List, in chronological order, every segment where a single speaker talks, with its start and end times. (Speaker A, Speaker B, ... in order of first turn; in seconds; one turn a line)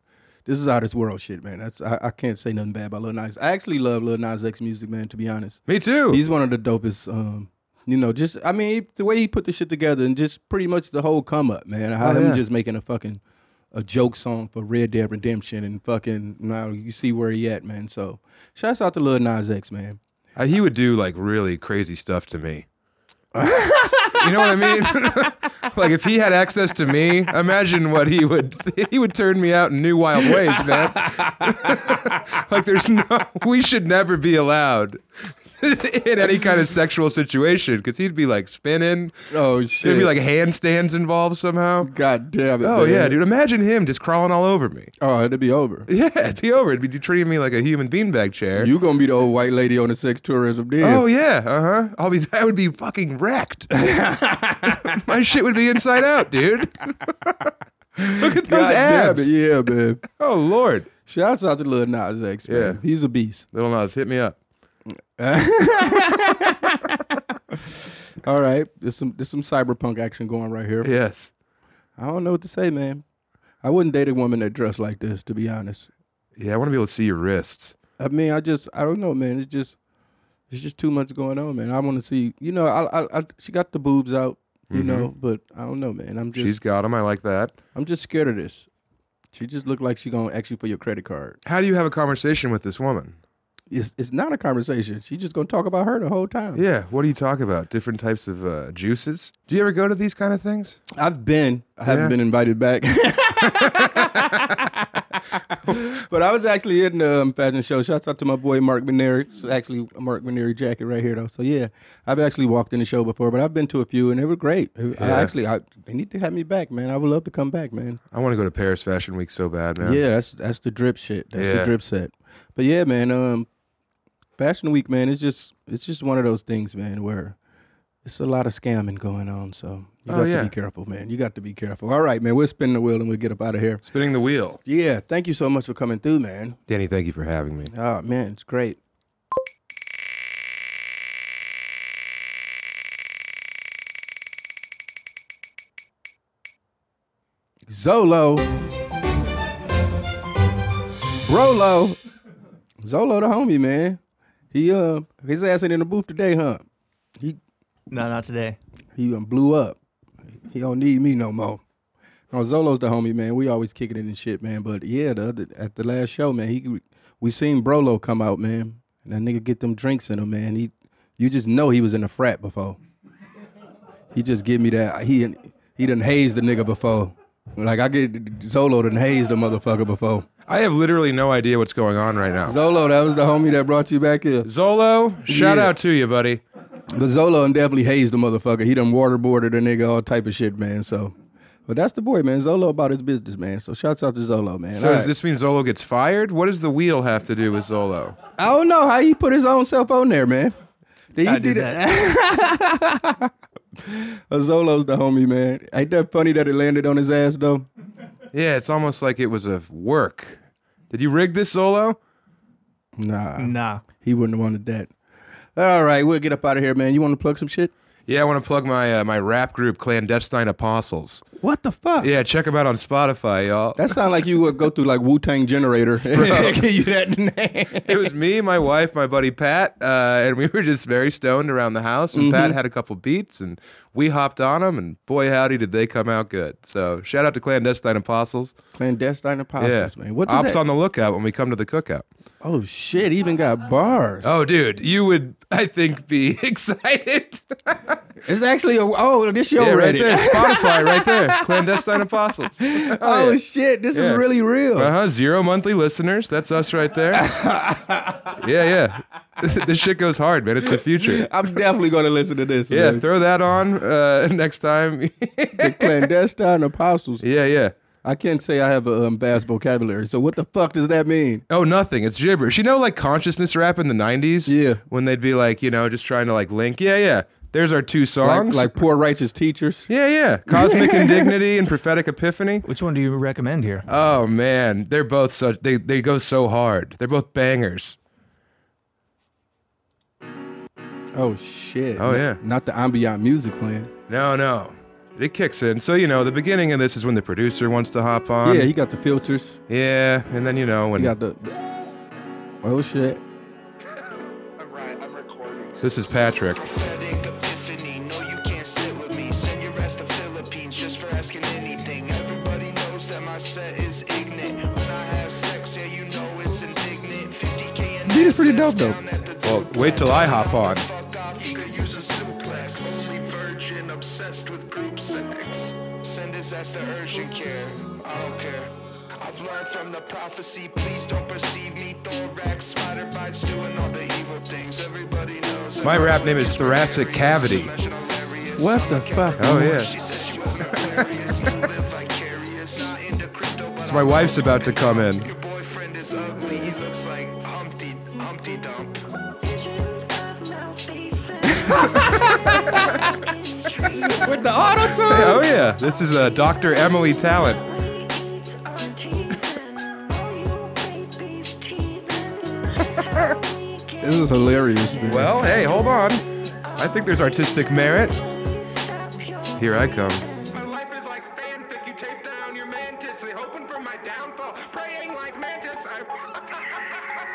Speaker A: 0.4-13.2
Speaker B: 5.7-6.2
Speaker B: 12.0-12.4
Speaker A: 13.7-20.0
Speaker B: 20.4-22.6
Speaker A: 23.3-25.1
Speaker B: 24.1-39.1
Speaker A: 30.7-31.7
Speaker A: 39.3-40.1
Speaker B: 39.8-41.9
Speaker A: 41.8-43.2
Speaker B: 42.6-44.9
Speaker A: 45.0-45.9
Speaker B: 45.9-48.7
Speaker A: 48.6-51.0
Speaker B: 50.8-53.7
Speaker A: 53.7-55.0
Speaker B: 54.8-57.3
Speaker A: 58.0-60.0
Speaker B: 58.0-59.3
Speaker B: 60.1-60.9
Speaker A: 61.0-63.5
Speaker B: 62.5-62.8
Speaker B: 63.5-64.4
Speaker A: 65.2-67.0
Speaker A: 67.5-70.9
Speaker B: 70.8-71.3
Speaker A: 72.0-73.0
Speaker A: 73.6-75.9
Speaker B: 76.3-77.7
Speaker A: 78.0-79.8
Speaker A: 80.5-86.5
Speaker B: 84.7-85.1
Speaker B: 86.3-87.6
Speaker A: 87.7-88.7
Speaker A: 89.3-91.4
Speaker B: 91.4-93.2
Speaker A: 93.7-96.6
Speaker B: 96.5-100.8
Speaker A: 100.9-118.0
Speaker B: 101.8-102.1
Speaker B: 103.4-104.5
Speaker B: 115.0-115.3
Speaker B: 118.1-120.0
Speaker A: 119.8-123.5
Speaker B: 121.3-121.7
Speaker A: 124.4-127.3
Speaker A: 128.0-133.8
Speaker B: 130.1-130.5
Speaker B: 133.8-134.6
Speaker A: 134.6-136.6
Speaker B: 136.7-137.7
Speaker A: 137.7-138.8
Speaker A: 147.7-148.5
Speaker A: 151.2-152.0
Speaker A: 152.8-154.0
Speaker A: 154.5-156.6
Speaker C: 157.9-158.6
Speaker A: 158.9-159.8
Speaker A: 160.5-161.6
Speaker A: 162.3-172.8
Speaker A: 174.1-180.2
Speaker B: 180.5-182.6
Speaker A: 182.4-184.5
Speaker B: 184.4-186.4
Speaker A: 185.2-185.7
Speaker A: 186.9-191.1
Speaker A: 191.7-195.1
Speaker B: 194.7-198.2
Speaker A: 198.4-200.5
Speaker A: 201.1-203.3
Speaker C: 201.2-201.8
Speaker A: 203.8-207.7
Speaker B: 208.3-210.4
Speaker B: 210.9-212.0
Speaker A: 213.0-214.9
Speaker C: 213.4-213.8
Speaker A: 215.6-217.7
Speaker B: 218.1-221.2
Speaker A: 221.4-222.1
Speaker B: 222.0-224.0
Speaker A: 223.8-228.1
Speaker B: 226.1-226.6
Speaker B: 227.8-238.5
Speaker A: 232.1-232.6
Speaker A: 238.7-240.6
Speaker B: 239.6-242.1
Speaker A: 242.4-244.3
Speaker B: 244.2-248.0
Speaker A: 248.2-251.8
Speaker B: 249.6-253.4
Speaker A: 252.6-254.9
Speaker B: 253.9-254.2
Speaker B: 254.7-257.3
Speaker A: 257.1-258.4
Speaker B: 258.3-261.4
Speaker A: 260.9-263.0
Speaker B: 262.7-266.1
Speaker A: 265.6-267.2
Speaker B: 267.2-267.7
Speaker A: 268.0-271.4
Speaker B: 271.5-278.8
Speaker A: 274.5-274.8
Speaker A: 278.2-279.9
Speaker B: 279.9-282.6
Speaker A: 280.5-281.3
Speaker C: 282.6-283.8
Speaker B: 283.9-288.0
Speaker A: 291.1-293.9
Speaker B: 291.9-292.4
Speaker B: 294.1-298.7
Speaker A: 298.4-299.6
Speaker B: 299.7-301.1
Speaker A: 300.9-301.6
Speaker A: 302.6-303.2
Speaker D: 304.6-349.1
Speaker B: 305.8-306.6
Speaker A: 318.1-319.0
Speaker B: 319.4-320.9
Speaker B: 335.8-337.7
Speaker A: 338.6-339.9
Speaker B: 339.4-339.9
Speaker B: 340.7-341.5
Speaker B: 343.8-345.3
Speaker E: 349.2-354.8
Speaker A: 352.0-352.8
Speaker A: 354.0-355.5
Speaker B: 355.0-357.6
Speaker E: 355.6-364.8
Speaker A: 364.0-365.4
Speaker B: 365.0-368.1
Speaker E: 365.4-366.1
Speaker E: 366.6-377.2
Speaker B: 369.6-370.2